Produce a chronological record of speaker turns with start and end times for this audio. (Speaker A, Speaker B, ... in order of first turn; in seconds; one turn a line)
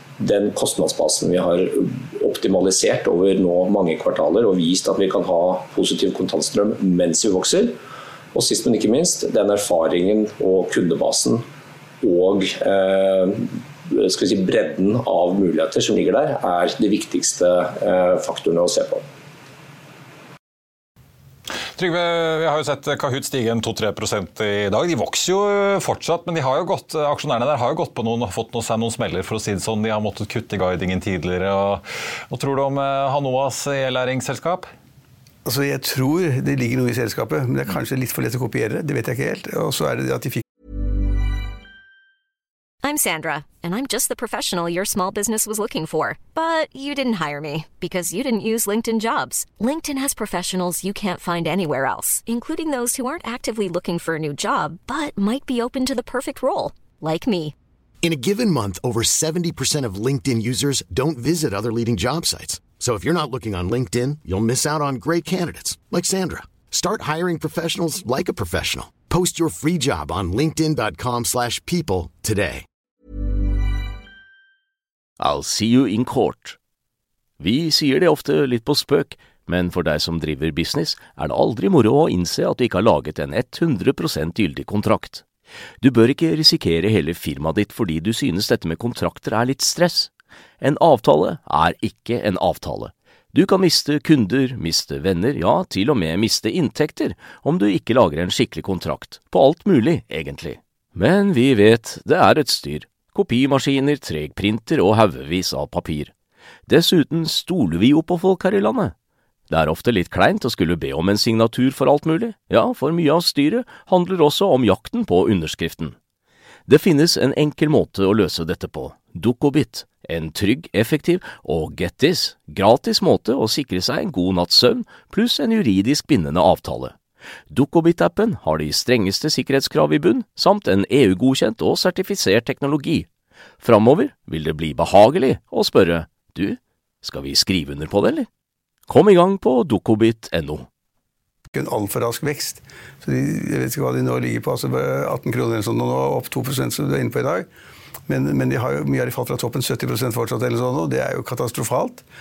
Speaker A: 0.2-7.8
Speaker A: 8.3-11.4
Speaker A: 12.0-19.0
Speaker B: 21.8-34.7
Speaker C: 35.5-40.4
Speaker D: 42.8-57.5
Speaker E: 58.0-72.7
Speaker F: 75.2-76.6
Speaker F: 77.4-85.2
Speaker F: 85.8-106.1
Speaker F: 106.7-108.9
Speaker F: 109.5-116.0
Speaker F: 116.7-126.9
Speaker F: 127.5-133.1
Speaker F: 133.6-138.3
Speaker F: 138.9-140.7
Speaker C: 141.5-147.5
Speaker C: 148.1-152.0